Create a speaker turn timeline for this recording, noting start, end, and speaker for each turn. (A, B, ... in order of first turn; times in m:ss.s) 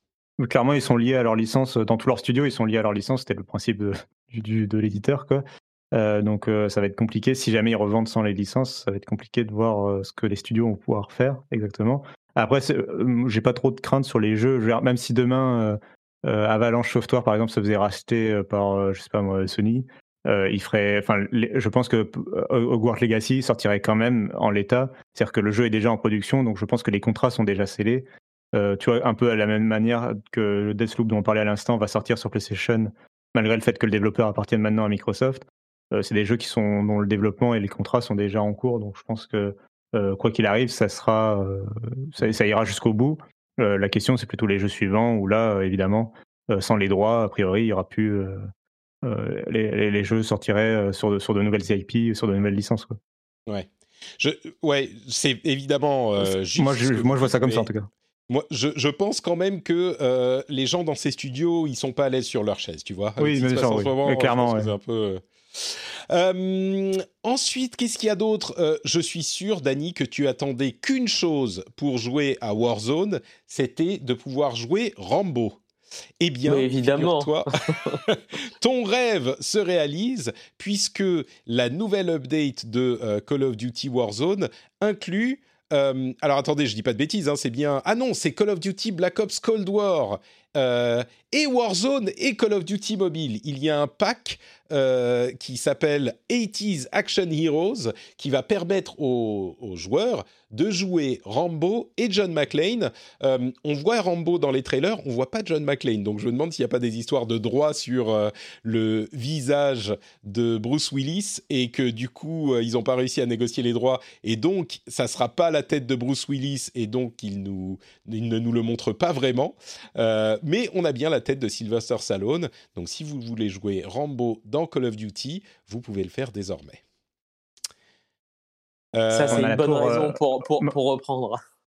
0:00.4-0:48.5 A
0:49.0-0:53.0 A
0:54.2-0:57.7 B
0:56.2-0:57.9 A
0:58.3-1:15.6 B
1:03.2-1:04.7 A
1:16.2-1:17.5 B
1:16.5-1:18.0 C
1:18.1-2:06.8 B
2:09.0-2:09.5 B
2:09.1-2:11.4 C
2:09.3-2:10.7 A